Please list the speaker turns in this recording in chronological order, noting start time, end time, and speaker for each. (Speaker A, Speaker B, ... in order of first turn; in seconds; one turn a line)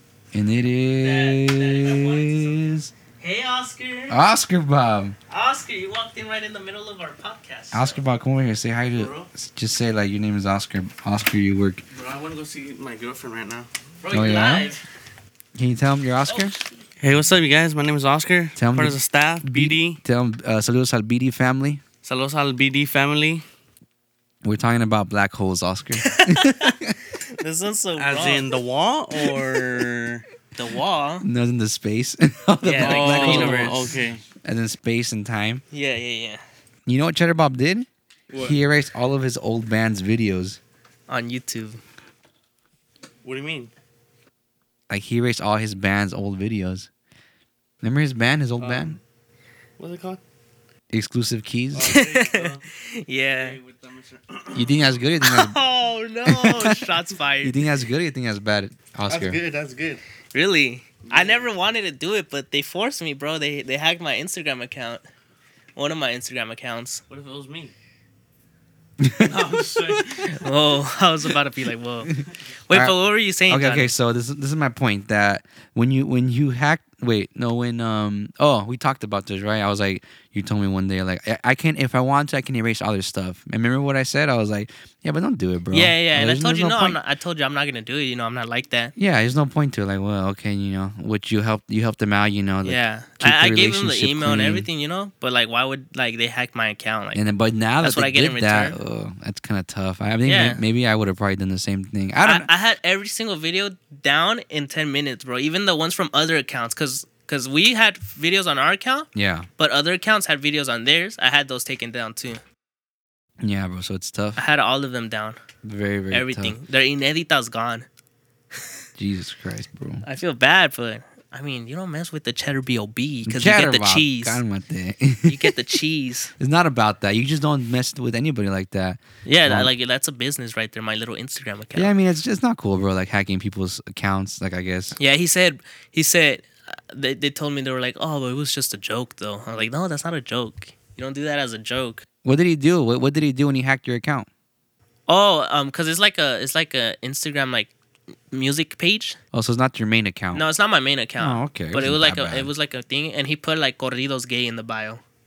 Speaker A: 0.3-2.9
Speaker B: 1.0-4.2
Speaker A: 4.1-5.2
Speaker B: 5.3-8.0
Speaker A: 7.7-11.8
Speaker B: 9.0-9.2
Speaker C: 11.9-13.7
Speaker B: 14.0-14.8
Speaker A: 14.1-14.7
Speaker A: 15.6-16.6
Speaker B: 16.3-16.6
Speaker C: 17.0-20.0
Speaker A: 18.6-21.8
Speaker C: 22.0-23.4
Speaker A: 24.4-27.0
Speaker B: 26.0-26.8
Speaker B: 27.4-28.5
Speaker C: 28.0-30.2
Speaker B: 30.6-31.3
Speaker A: 31.2-33.9
Speaker B: 32.6-33.9
Speaker C: 32.7-34.2
Speaker A: 34.4-35.6
Speaker B: 35.7-36.4
Speaker A: 36.9-40.6
Speaker C: 38.3-38.6
Speaker B: 41.1-41.8
Speaker C: 43.2-43.7
Speaker A: 44.9-46.9
Speaker A: 47.8-49.0
Speaker C: 48.6-49.0
Speaker C: 49.8-50.2
Speaker A: 50.9-52.0
Speaker C: 51.7-52.7
Speaker B: 51.8-53.6
Speaker C: 53.3-55.0
Speaker A: 54.5-55.6
Speaker B: 55.2-57.6
Speaker A: 56.3-59.4
Speaker C: 59.1-60.0
Speaker B: 60.3-65.0
Speaker C: 61.0-61.5
Speaker B: 65.8-67.0
Speaker C: 67.1-67.7
Speaker A: 69.0-70.1
Speaker C: 69.2-70.4
Speaker B: 70.2-72.2
Speaker B: 72.7-73.9
Speaker A: 72.7-73.0
Speaker A: 73.5-87.0
Speaker B: 85.7-88.9
Speaker A: 89.0-94.7
Speaker B: 92.6-97.2
Speaker A: 97.1-102.5
Speaker B: 97.8-98.8
Speaker B: 100.2-100.6
Speaker B: 102.2-112.4
Speaker A: 109.2-109.5
Speaker A: 113.4-114.4
Speaker B: 114.4-115.4
Speaker A: 115.6-116.6
Speaker B: 116.1-117.9
Speaker A: 119.0-120.0
Speaker B: 120.0-124.4
Speaker A: 123.2-125.5
Speaker B: 125.3-126.3
Speaker A: 126.4-129.7
Speaker B: 129.2-131.9
Speaker A: 131.8-135.0
Speaker B: 135.0-142.1
Speaker A: 142.2-144.3
Speaker B: 145.1-147.7
Speaker B: 148.3-149.2
Speaker A: 149.3-150.4
Speaker B: 150.3-155.0
Speaker A: 151.2-152.5